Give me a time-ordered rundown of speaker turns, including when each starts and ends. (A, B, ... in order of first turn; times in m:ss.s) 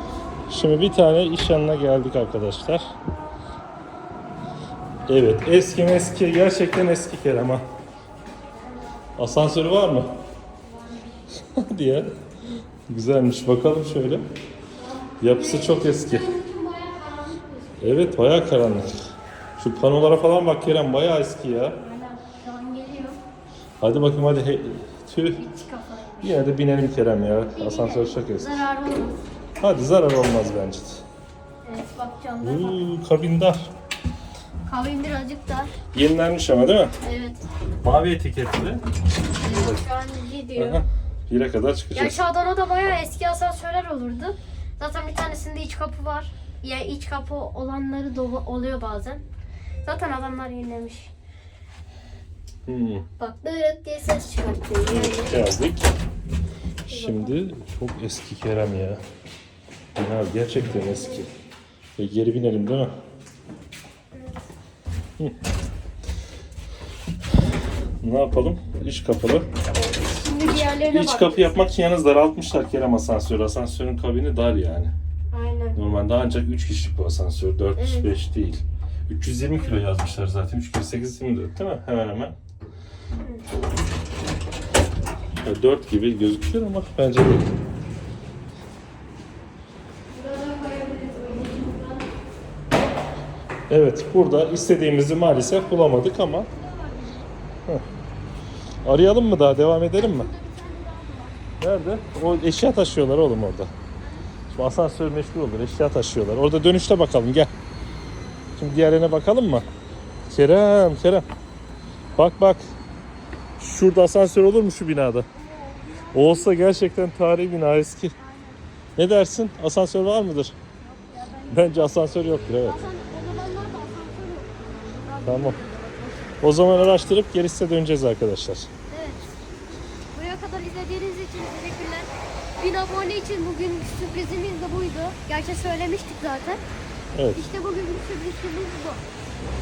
0:00.5-0:02.9 A
0:05.1-0:07.6 A
0:09.2-0:10.1 A
0:11.4-0:12.1 A
0:12.9-0:14.2 A
0:14.8-0:17.8 B
0:15.2-0:16.3 A
0:17.8-0:19.0 A
0:19.6-0:21.8 A
0:21.8-0:23.2 B
0:23.8-0:25.4 A
0:25.4-0:26.4 B
0:26.2-0:28.6 A
0:27.5-0:29.2 B
0:29.6-0:31.0 A
0:31.6-0:32.8 B
0:32.4-0:33.7 A
0:34.7-0:35.7 B
0:35.9-0:36.9 A
0:37.0-0:37.4 B
0:37.8-0:38.8 A
0:39.4-0:39.8 A
0:39.4-0:40.8 B
0:40.6-0:42.2 A
0:42.0-0:49.2 B
0:49.8-0:51.1 B
0:52.7-0:53.1 A
0:53.2-0:55.4 B
0:54.9-0:55.9 A
0:56.9-0:57.4 B
0:56.9-0:59.0 A
1:00.0-1:01.3 A
1:02.0-1:02.9 A
1:04.1-1:04.4 B
1:08.0-1:09.5 A
1:09.7-1:11.7 B
1:10.9-1:14.9 A
1:15.3-1:15.8 B
1:15.8-1:22.4 A
1:17.8-1:18.1 B
1:23.2-1:23.4 B
1:25.4-1:27.5 A
1:30.1-1:32.1 B
1:33.7-1:36.5 A
1:36.2-1:37.3 B
1:38.8-1:40.3 A
1:40.0-1:41.4 B
1:41.6-1:43.7 A
1:44.0-1:44.3 B
1:44.5-1:47.5 A
1:48.6-1:49.7 A
1:50.3-1:51.2 A
1:52.2-1:52.6 A
1:53.6-1:55.3 A
1:55.3-1:56.7 B
1:56.1-1:58.1 A
1:58.2-1:58.6 B
1:59.0-2:00.6 A
2:00.8-2:06.4 B
2:01.5-2:02.8 A
2:05.3-2:05.6 A
2:06.4-2:08.7 A
2:08.9-2:09.3 B
2:10.1-2:16.6 B
2:17.2-2:17.4 A
2:17.3-2:19.0 B